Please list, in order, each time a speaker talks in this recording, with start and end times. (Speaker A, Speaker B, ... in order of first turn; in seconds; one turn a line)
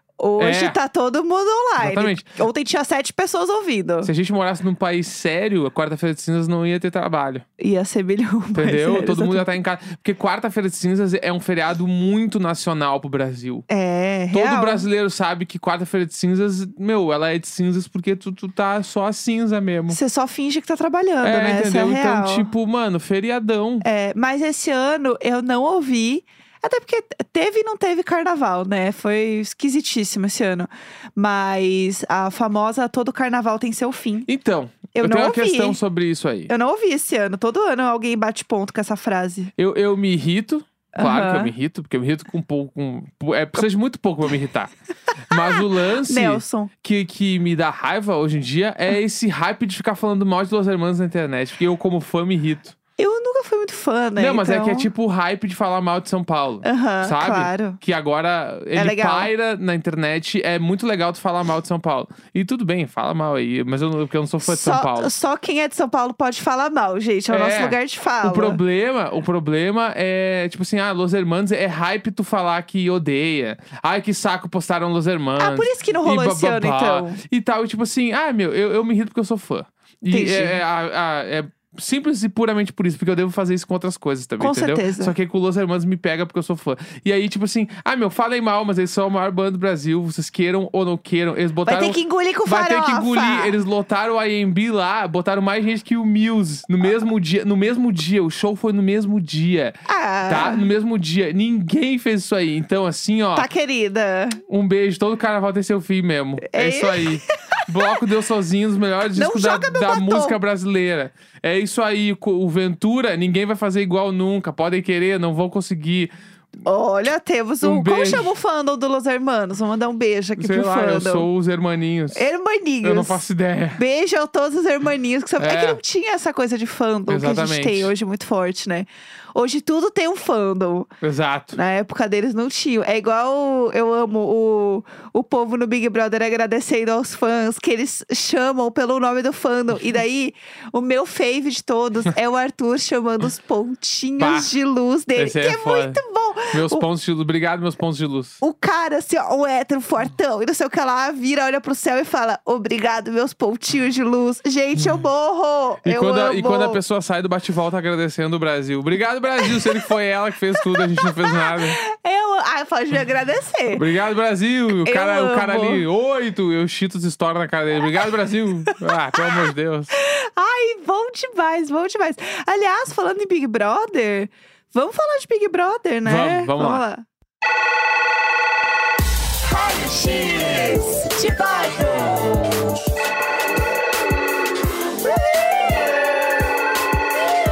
Speaker A: 0.2-4.1
Speaker B: 0.4-0.8
Speaker B: 1.8-2.4
Speaker B: 4.0-7.4
Speaker A: 7.6-9.5
Speaker B: 8.6-13.7
Speaker A: 13.7-14.8
Speaker B: 14.3-20.0
Speaker A: 19.9-22.5
Speaker B: 21.2-23.9
Speaker A: 23.8-34.3
Speaker B: 34.3-36.5
Speaker A: 34.9-35.8
Speaker A: 36.5-39.5
Speaker B: 39.6-44.7
Speaker A: 40.9-41.5
Speaker B: 45.3-52.8
Speaker A: 45.3-46.7
Speaker A: 53.0-54.9
Speaker B: 54.2-65.1
Speaker A: 56.6-57.8
Speaker A: 58.8-59.3
Speaker A: 64.4-68.6
Speaker B: 67.3-99.8
Speaker A: 75.4-77.2
Speaker A: 80.1-80.6
Speaker A: 84.4-85.1
Speaker A: 91.7-93.5
Speaker A: 99.9-100.7
Speaker B: 100.3-103.5
Speaker A: 103.3-104.4
Speaker B: 104.5-116.1
Speaker A: 106.4-108.0
Speaker A: 109.2-110.4
Speaker A: 116.7-121.3
Speaker B: 117.6-118.3
Speaker B: 120.4-122.3
Speaker A: 122.1-123.2
Speaker B: 122.8-123.8
Speaker A: 123.8-130.9
Speaker B: 125.4-125.8
Speaker B: 127.1-127.9
Speaker B: 131.0-131.6
Speaker A: 131.5-146.8
Speaker B: 144.2-144.5
Speaker B: 145.2-146.0
Speaker B: 146.5-148.4
Speaker A: 148.4-156.8
Speaker B: 155.8-161.8
Speaker A: 159.4-159.8
Speaker A: 160.6-163.8
Speaker B: 163.7-169.9
Speaker A: 164.8-165.8
Speaker A: 168.7-177.1
Speaker B: 176.1-176.8
Speaker A: 179.5-182.6
Speaker A: 185.1-185.7